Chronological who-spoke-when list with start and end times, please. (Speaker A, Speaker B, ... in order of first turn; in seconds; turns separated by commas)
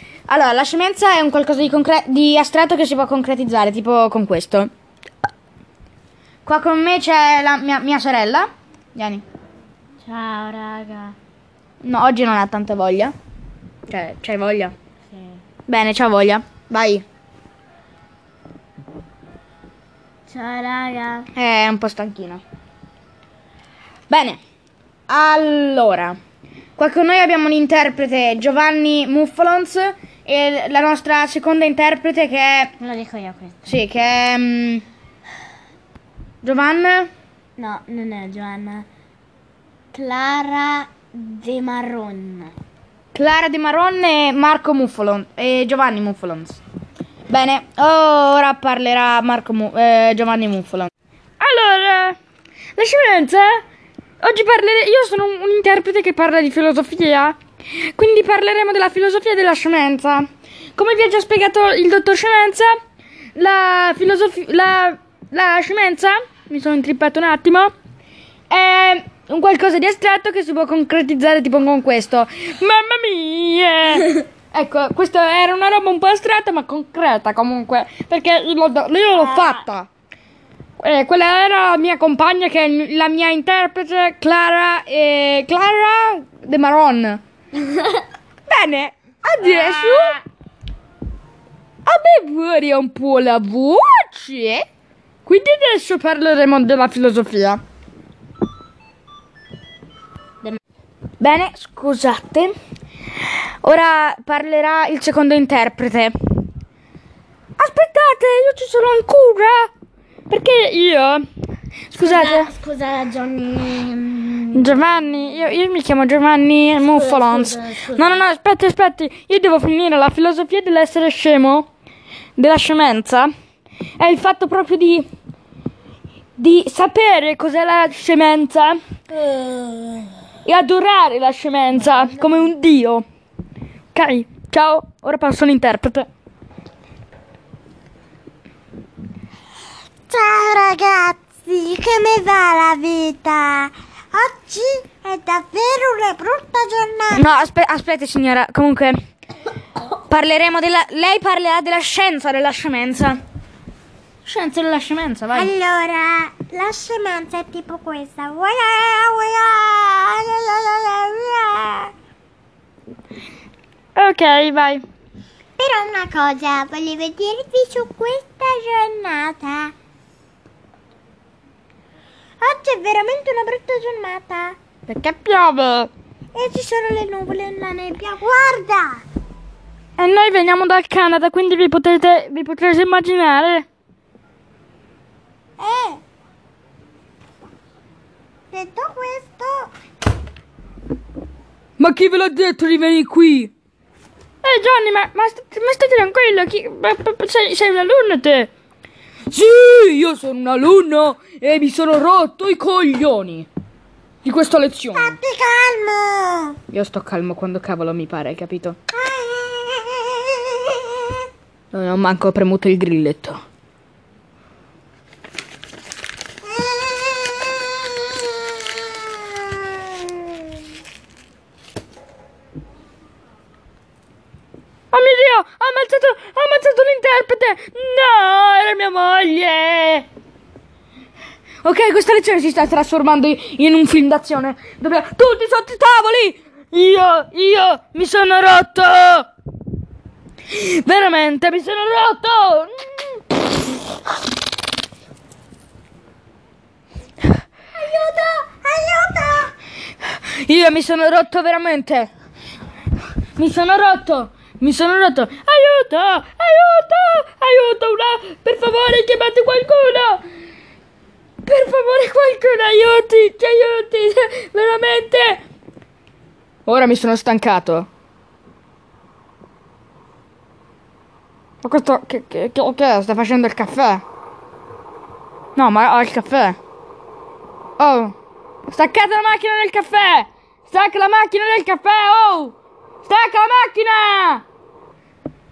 Speaker A: 0.3-4.7, Speaker A: 6.4-9.2, Speaker B: 10.0-11.1, Speaker A: 11.8-13.1, Speaker A: 13.9-14.7, Speaker A: 15.7-17.0, Speaker B: 20.3-21.3, Speaker A: 21.3-22.4, Speaker A: 24.1-24.4, Speaker A: 25.1-26.2, Speaker A: 26.8-32.7, Speaker B: 32.8-33.5, Speaker A: 33.6-34.8, Speaker A: 36.4-37.1, Speaker B: 37.6-38.4, Speaker C: 37.6-38.8, Speaker B: 39.9-42.5, Speaker C: 40.2-40.9, Speaker A: 43.1-46.6, Speaker A: 47.3-52.2, Speaker A: 52.8-53.6, Speaker A: 54.2-62.7, Speaker A: 63.3-67.7, Speaker A: 68.5-79.9, Speaker A: 80.8-87.2, Speaker A: 88.5-90.2, Speaker A: 91.8-94.6, Speaker A: 95.2-97.6, Speaker A: 101.2-102.5, Speaker A: 103.6-106.2, Speaker A: 107.6-109.7, Speaker A: 110.3-111.2, Speaker A: 111.9-112.5, Speaker B: 112.0-114.7, Speaker A: 114.5-121.7, Speaker B: 116.9-118.2, Speaker A: 122.4-123.3, Speaker A: 124.0-125.0, Speaker A: 126.4-128.8, Speaker B: 129.3-130.1, Speaker A: 130.4-133.0, Speaker A: 133.9-136.1, Speaker C: 140.1-147.5, Speaker A: 147.1-149.0, Speaker A: 150.1-153.2, Speaker A: 154.2-155.5, Speaker C: 155.3-161.9, Speaker A: 163.9-164.8, Speaker C: 165.6-169.7, Speaker C: 172.4-174.6, Speaker A: 174.9-175.9, Speaker C: 176.3-179.0, Speaker A: 180.0-183.7, Speaker C: 185.6-186.0, Speaker C: 188.5-189.7, Speaker A: 191.8-193.5, Speaker A: 194.4-198.5, Speaker A: 199.3-203.5, Speaker A: 204.2-205.2, Speaker C: 204.9-206.6, Speaker A: 206.7-208.8, Speaker C: 208.9-211.2, Speaker A: 211.7-213.4, Speaker C: 216.4-220.4, Speaker A: 224.9-230.1, Speaker A: 231.6-239.3, Speaker A: 240.5-243.4, Speaker C: 247.8-249.5, Speaker A: 250.0-252.1, Speaker A: 253.3-260.2, Speaker A: 261.4-265.4, Speaker A: 266.6-267.9, Speaker A: 271.6-274.0, Speaker A: 275.6-276.6, Speaker A: 277.8-278.1, Speaker A: 278.7-284.4